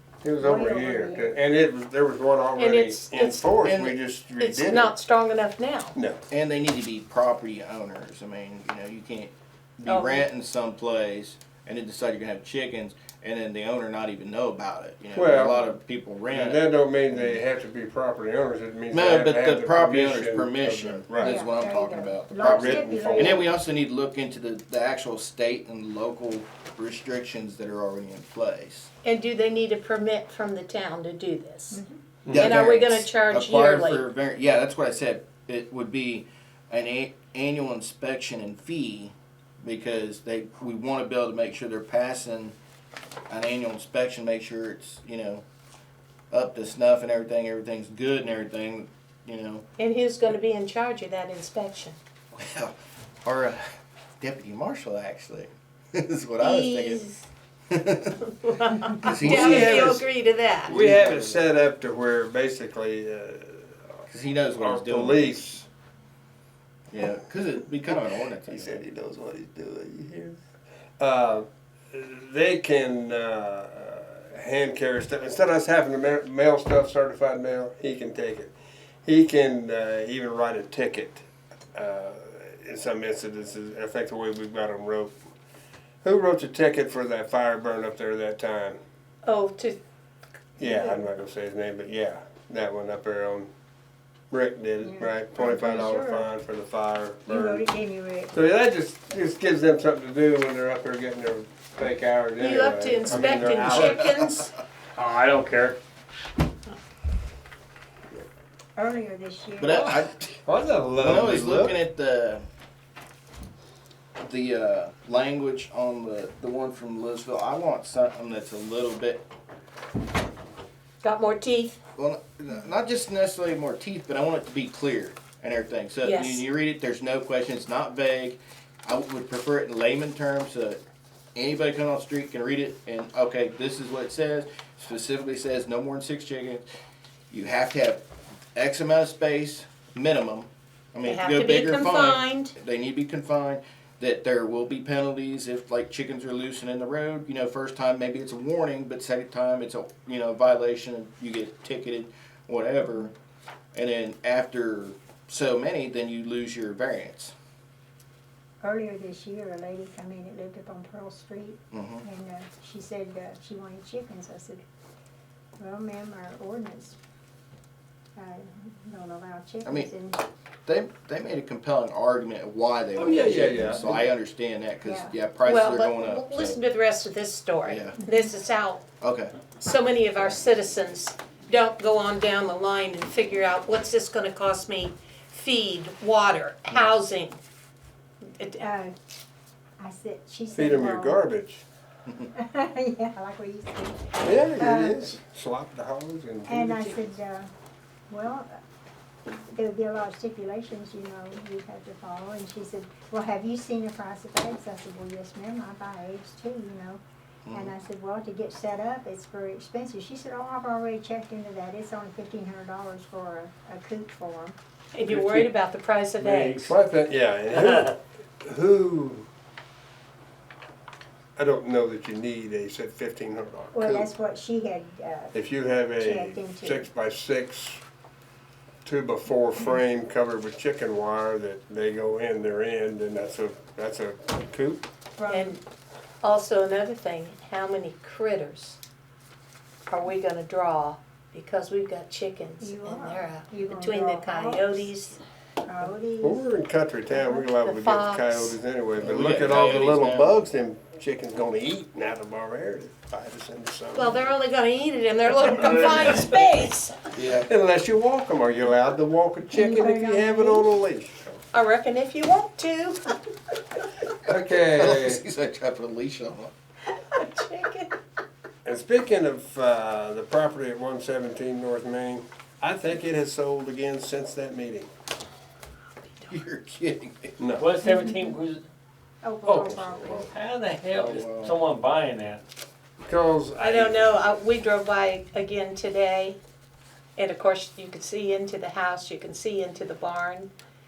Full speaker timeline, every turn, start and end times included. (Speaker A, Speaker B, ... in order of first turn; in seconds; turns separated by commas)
Speaker A: 0.2-4.9, Speaker B: 0.4-1.4, Speaker C: 2.6-3.5, Speaker D: 3.6-4.0, Speaker C: 4.4-6.0, Speaker A: 6.0-6.2, Speaker D: 6.3-16.6, Speaker C: 9.9-10.3, Speaker A: 15.1-15.6, Speaker A: 16.3-21.4, Speaker D: 18.9-28.9, Speaker B: 21.2-23.6, Speaker A: 22.4-23.4, Speaker C: 29.0-31.8, Speaker B: 31.7-32.0, Speaker D: 32.3-42.5, Speaker C: 32.4-34.1, Speaker D: 43.3-45.5, Speaker D: 46.3-49.6, Speaker C: 49.8-52.0, Speaker D: 52.3-57.0, Speaker C: 56.4-57.3, Speaker D: 57.7-58.2, Speaker C: 58.3-60.8, Speaker D: 59.0-60.0, Speaker A: 59.2-60.0, Speaker A: 60.7-64.0, Speaker D: 60.7-61.2, Speaker D: 64.1-65.5, Speaker A: 64.6-65.7, Speaker D: 66.9-68.8, Speaker A: 67.9-70.4, Speaker A: 71.0-78.5, Speaker A: 79.0-85.2, Speaker A: 86.0-88.8, Speaker C: 89.2-89.8, Speaker A: 90.6-93.5, Speaker B: 90.6-91.1, Speaker A: 94.3-97.6, Speaker B: 94.8-96.3, Speaker B: 97.3-98.3, Speaker A: 98.3-104.0, Speaker C: 102.4-104.5, Speaker E: 103.5-103.9, Speaker E: 105.0-105.8, Speaker B: 108.8-110.0, Speaker D: 109.6-110.4, Speaker A: 110.5-111.8, Speaker D: 111.0-112.4, Speaker D: 114.2-119.2, Speaker C: 121.0-121.8, Speaker D: 122.0-130.8, Speaker C: 126.0-126.5, Speaker D: 131.3-136.7, Speaker D: 137.3-138.0, Speaker D: 138.6-153.1, Speaker C: 141.0-142.6, Speaker D: 153.7-157.3, Speaker B: 158.6-164.6, Speaker D: 161.7-162.0, Speaker B: 165.6-167.0, Speaker B: 168.2-170.2, Speaker D: 169.7-169.9, Speaker D: 170.7-176.6, Speaker A: 173.0-174.0, Speaker B: 174.8-175.1, Speaker C: 175.4-178.8, Speaker D: 177.6-177.9, Speaker D: 179.0-179.4, Speaker C: 179.5-187.4, Speaker B: 188.4-188.9, Speaker B: 189.8-191.2, Speaker A: 190.5-191.6, Speaker B: 192.3-195.2, Speaker A: 194.2-197.2, Speaker B: 196.5-197.5, Speaker B: 198.1-198.5, Speaker B: 199.5-207.0, Speaker D: 207.5-207.7, Speaker B: 207.5-214.6, Speaker C: 214.9-216.8, Speaker A: 215.1-215.5, Speaker E: 216.2-216.7, Speaker A: 216.3-219.3, Speaker A: 221.4-224.1, Speaker B: 223.7-225.4, Speaker A: 225.3-227.8, Speaker B: 226.0-226.9, Speaker A: 228.8-234.8, Speaker B: 235.2-235.6, Speaker C: 235.3-235.6, Speaker C: 236.2-238.8, Speaker C: 239.9-245.2, Speaker B: 242.6-245.0, Speaker B: 245.7-246.5, Speaker A: 246.2-254.2, Speaker B: 247.1-247.5, Speaker C: 247.6-248.6, Speaker D: 249.0-250.3, Speaker C: 253.9-257.1, Speaker D: 257.1-257.5, Speaker A: 257.3-261.4, Speaker B: 259.5-260.7, Speaker C: 261.5-263.2, Speaker A: 264.2-265.2, Speaker D: 264.7-266.5, Speaker C: 267.1-267.9, Speaker A: 268.6-274.9, Speaker D: 276.3-277.4, Speaker A: 277.4-277.7, Speaker E: 277.6-278.6, Speaker B: 277.8-278.4, Speaker B: 279.2-280.3, Speaker A: 279.5-280.2, Speaker E: 280.1-282.4, Speaker D: 280.9-281.6, Speaker A: 283.0-284.1, Speaker C: 283.6-286.4, Speaker C: 287.2-290.5